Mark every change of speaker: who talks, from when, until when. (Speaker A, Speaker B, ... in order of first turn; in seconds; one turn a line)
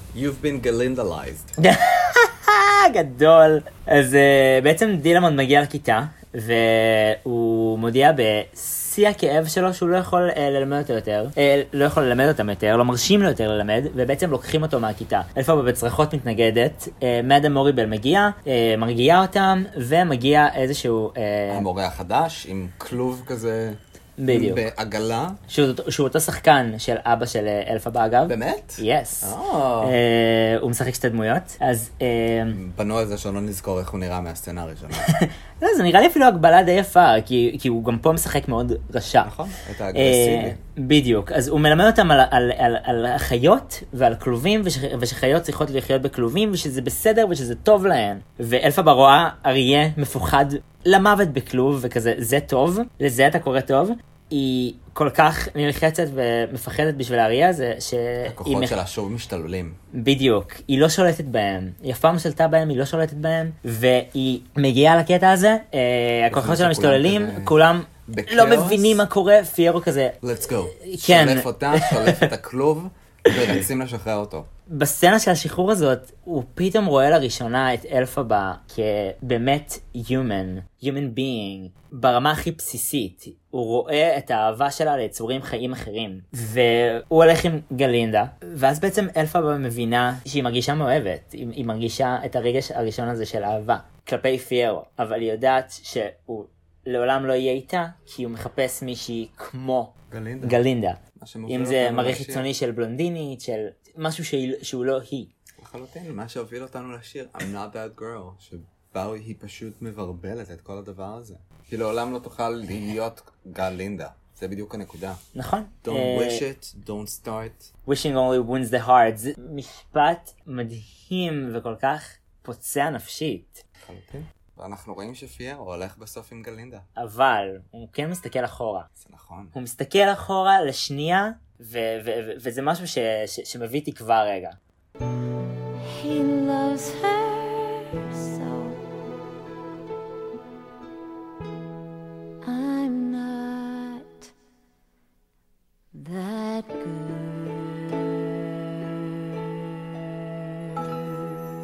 Speaker A: 0.1-1.6
Speaker B: 1.6-21.7
Speaker A: 21.5-25.4
Speaker B: 24.2-24.6
Speaker B: 25.5-32.6
Speaker A: 28.3-30.0
Speaker A: 32.5-35.1
Speaker B: 35.0-39.3
Speaker A: 39.2-40.6
Speaker B: 39.9-58.7
Speaker A: 58.3-59.8
Speaker B: 59.9-70.2
Speaker A: 66.3-69.0
Speaker A: 70.2-74.5
Speaker B: 70.7-72.2
Speaker B: 74.7-105.3
Speaker A: 100.1-100.6
Speaker A: 101.1-102.5
Speaker A: 105.6-115.2
Speaker B: 115.3-116.4
Speaker A: 115.8-117.7
Speaker B: 117.8-123.6
Speaker A: 123.8-126.8
Speaker B: 127.0-128.9
Speaker A: 129.0-129.5
Speaker B: 129.5-134.6
Speaker C: 135.8-138.8
Speaker C: 142.4-144.3
Speaker C: 145.9-148.0